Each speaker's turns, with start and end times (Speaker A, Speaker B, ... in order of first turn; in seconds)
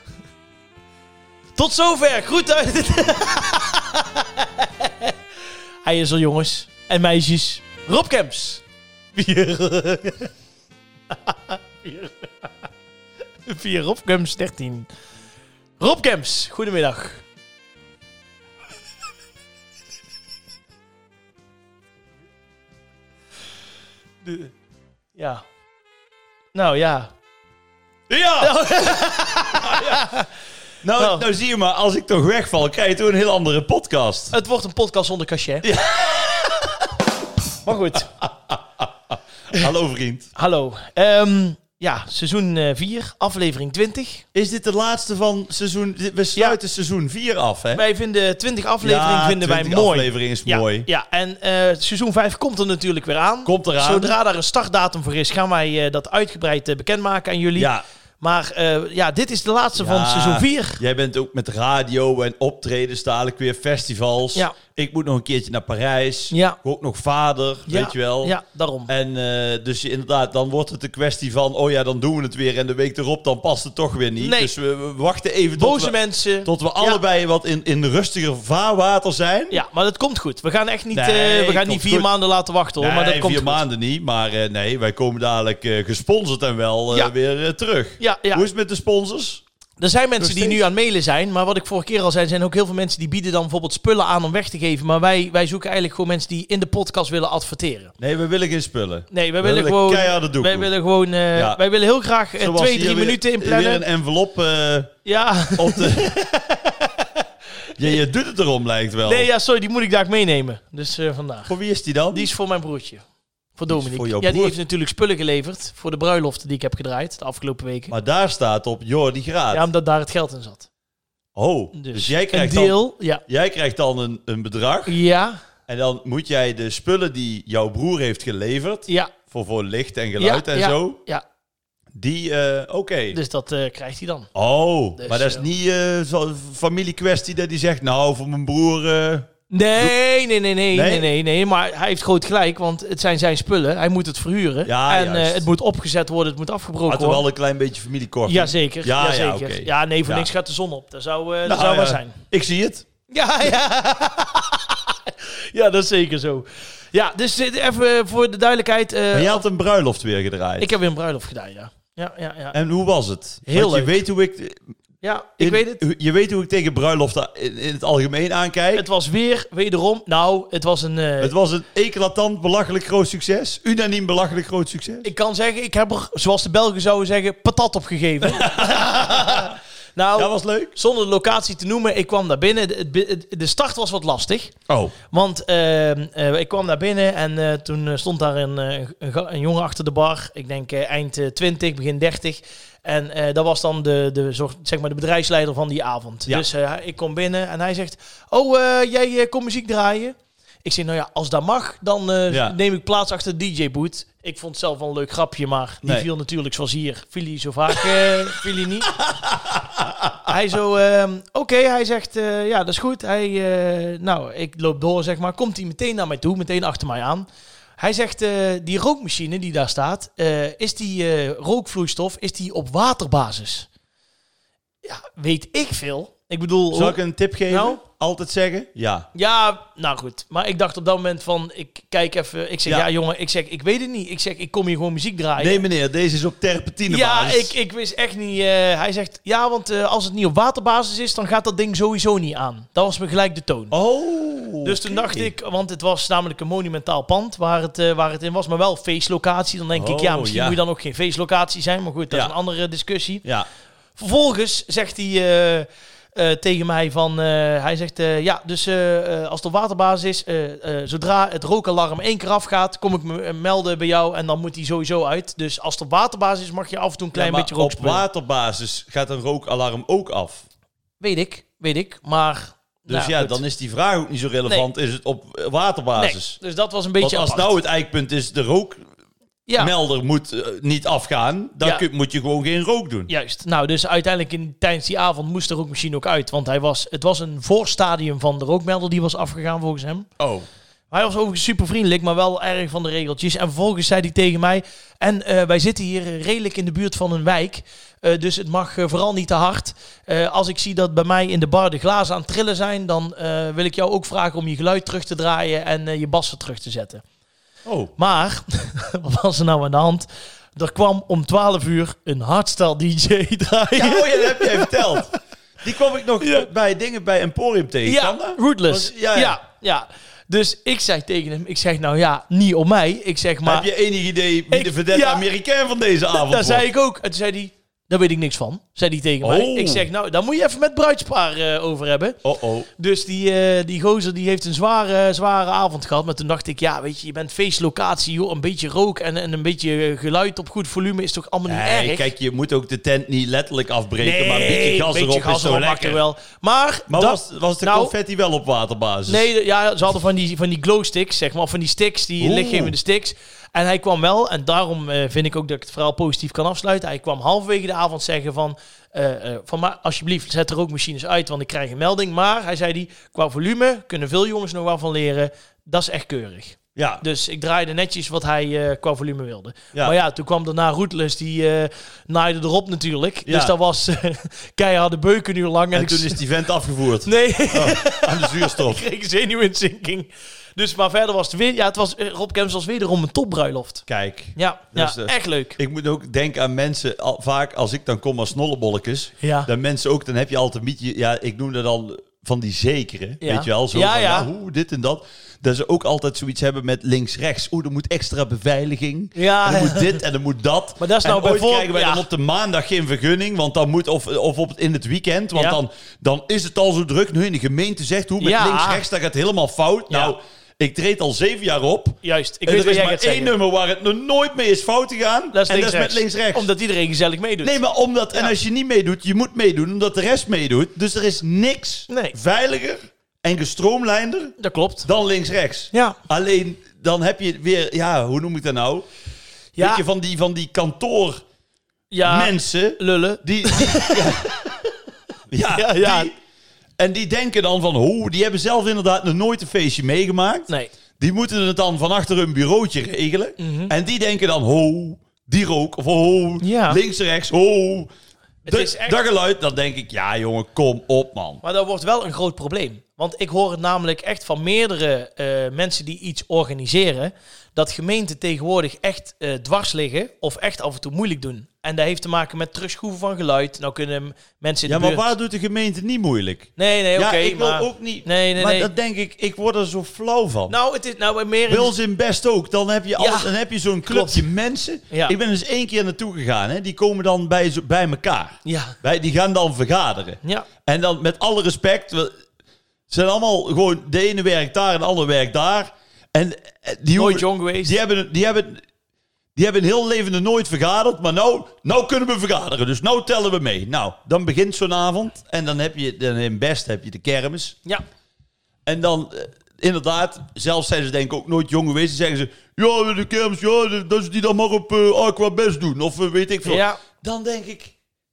Speaker A: 1.6-5.2, 5.8-8.6, 9.1-10.3, 11.1-12.5, 13.4-14.9, 15.8-17.2, 24.2-24.5, 25.1-25.4, 26.5-27.1, 28.4-30.3, 30.9-31.2, 34.3-35.6, 37.6-38.1, 40.3-44.2, 47.7-60.8, 66.3-66.6, 67.7-68.9, 74.2-74.5, 75.5-77.0, 79.5-83.6, 88.0-88.4, 89.8-97.9, 99.1-103.8, 105.0-107.2, 109.0-111.5, 112.1-117.9, 119.5-120.7, 121.7-123.2, 124.9-125.4, 128.9-129.1, 130.2-131.2, 133.1-134.3, 135.0-135.4, 139.5-147.2, 148.2-152.2, 153.1-159.4, 160.6-162.6, 163.4-164.0, 165.0-165.8, 168.7-171.3, 175.0-184.5, 185.1-209.0, 210.2-217.3, 217.8-223.7, 224.8-227.8, 229.1-235.6, 236.9-243.7, 244.6-253.2, 253.9-268.0, 271.0-273.4, 275.9-277.6, 279.5-279.7, 283.1-290.1, 290.9-307.0, 308.0-315.1, 316.2-316.5, 317.8-323.7, 324.5-325.2, 326.1-332.2, 332.8-342.1, 344.0-347.9, 349.1-376.2, 377.0-385.6, 389.2-389.5, 393.2-394.3, 399.1-400.0, 400.8-402.0, 408.2-408.8, 409.9-410.1, 412.0-413.3, 415.3-417.6, 421.9-422.1, 424.4-424.9, 425.7-426.0, 429.6-429.8, 431.9-434.6, 435.5-436.1, 443.4-443.7, 446.4-446.8, 448.4-449.0, 451.4-465.0, 466.6-468.7, 470.5-471.7, 473.0-473.3, 473.9-474.2, 474.9-475.1, 478.4-478.8, 480.2-480.5, 486.9-487.7, 506.4-506.8
Speaker B: 28.1-29.0, 29.6-30.0, 30.8-34.3, 35.6-36.6, 38.2-40.3, 44.3-47.8, 48.8-50.9, 53.4-54.1, 57.6-57.8, 59.7-68.3, 68.9-79.6, 80.9-82.1, 82.8-89.4, 90.2-90.6, 98.0-100.7, 101.3-101.6, 102.4-105.0, 105.5-106.2, 107.8-109.3, 111.5-112.3, 113.7-114.6, 117.9-119.6, 121.3-125.0, 125.7-131.0, 131.9-133.2, 134.3-139.9, 140.7-141.1, 144.7-145.4, 146.9-150.3, 151.4-152.8, 159.1-160.7, 162.5-164.6, 165.4-168.8, 171.2-175.1, 178.2-179.6, 180.2-180.7, 184.7-184.9, 202.3-202.6, 208.9-210.2, 226.7-229.1, 235.4-237.5, 243.7-245.3, 249.7-250.6, 252.1-252.3, 267.1-270.4, 272.9-276.4, 277.0-278.8, 279.6-283.1, 290.2-290.5, 307.6-307.9, 313.7-315.1, 315.6-319.4, 323.4-326.6, 329.2-329.8, 332.2-332.7, 341.5-346.0, 346.9-349.3, 352.2-352.7, 366.8-367.0, 373.2-373.5, 375.7-378.8, 383.9-416.5, 417.4-428.9, 429.6-431.2, 432.0-434.3, 435.3-436.1, 436.8-447.9, 448.5-451.4, 464.7-470.5, 471.5-482.1, 482.9-488.6, 489.4-497.6, 498.6-507.7